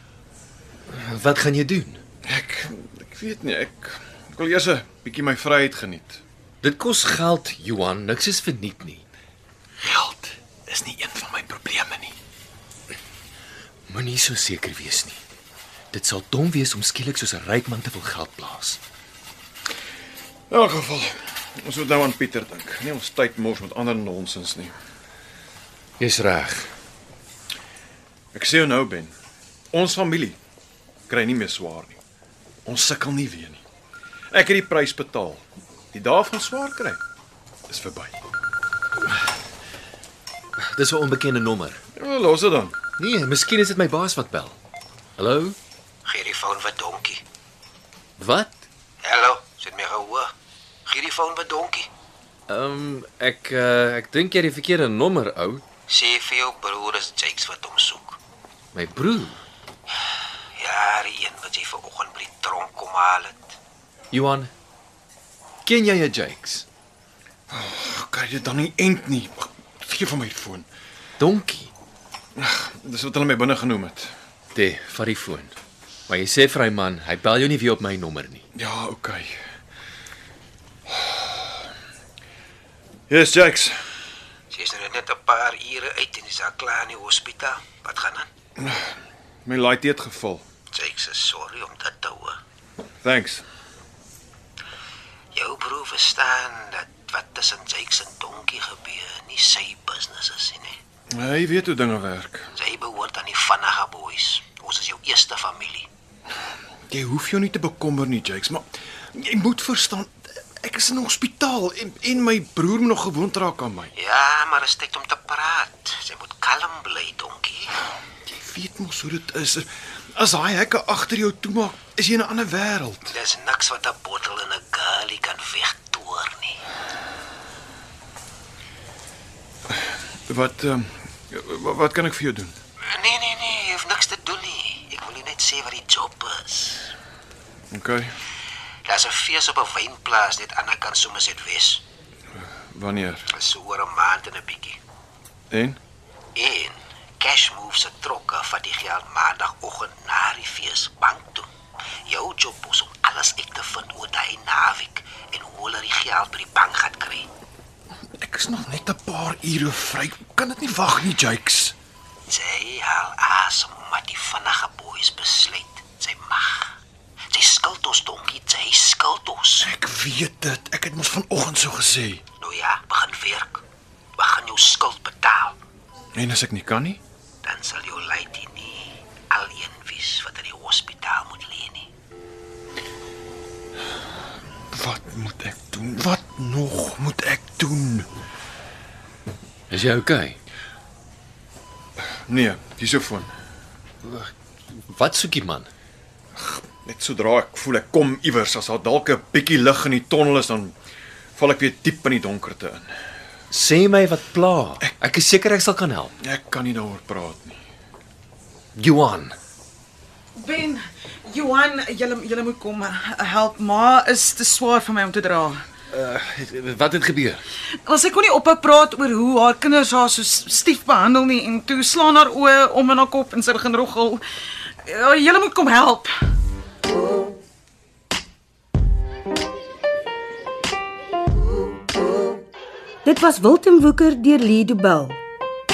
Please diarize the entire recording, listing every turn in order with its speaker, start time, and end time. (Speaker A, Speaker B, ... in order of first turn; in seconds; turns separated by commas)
Speaker A: 0.9-2.0, Speaker B: 2.2-6.2, Speaker A: 6.6-9.0, Speaker B: 9.8-12.1, Speaker A: 13.9-15.2, Speaker A: 15.9-18.8, Speaker B: 20.5-24.7, Speaker A: 26.0-26.7, Speaker B: 28.3-29.1, Speaker B: 29.7-30.4, Speaker B: 31.1-32.0, Speaker B: 32.6-33.6, Speaker B: 34.3-35.4, Speaker B: 35.9-37.0, Speaker B: 37.7-38.1, Speaker A: 40.6-41.8, Speaker B: 42.0-42.8, Speaker A: 43.0-44.5, Speaker A: 45.2-45.5, Speaker C: 46.0-47.2, Speaker A: 48.2-48.6, Speaker C: 49.0-50.3, Speaker C: 50.9-51.9, Speaker A: 52.5-55.6, Speaker C: 55.9-58.2, Speaker A: 58.7-59.4, Speaker C: 60.6-63.5, Speaker A: 64.1-64.5, Speaker A: 65.6-66.7, Speaker B: 67.5-70.7, Speaker A: 71.2-71.7, Speaker B: 72.3-74.1, Speaker A: 74.5-75.5, Speaker A: 76.1-78.4, Speaker B: 78.5-79.3, Speaker B: 80.9-81.2, Speaker B: 83.1-83.7, Speaker C: 84.5-88.3, Speaker B: 88.6-88.9, Speaker B: 89.5-90.4, Speaker C: 90.7-92.4, Speaker B: 93.0-93.4, Speaker C: 95.3-100.8, Speaker B: 101.1-102.5, Speaker C: 102.5-105.9, Speaker B: 106.9-113.9, Speaker C: 114.0-117.8, Speaker B: 118.3-123.1, Speaker C: 123.0-126.6, Speaker B: 130.3-132.5, Speaker C: 132.9-136.9, Speaker B: 137.7-138.1, Speaker C: 138.8-141.8, Speaker B: 142.7-143.3, Speaker C: 143.3-144.8, Speaker B: 145.5-145.8, Speaker C: 146.3-151.5, Speaker C: 152.1-157.3, Speaker B: 158.2-161.7, Speaker C: 162.3-166.7, Speaker C: 167.3-169.7, Speaker B: 169.6-172.2, Speaker C: 172.4-173.6, Speaker C: 174.2-175.6, Speaker B: 176.1-177.0, Speaker C: 177.4-181.9, Speaker B: 184.7-188.1, Speaker A: 189.7-190.4, Speaker B: 192.3-193.3, Speaker A: 194.9-195.7, Speaker B: 196.3-200.7, Speaker B: 201.4-202.9, Speaker A: 203.5-206.1, Speaker B: 206.2-207.6, Speaker A: 208.8-209.3, Speaker D: 210.3-215.6, Speaker A: 215.9-217.4, Speaker D: 217.8-224.2, Speaker D: 224.8-226.1, Speaker E: 233.0-235.2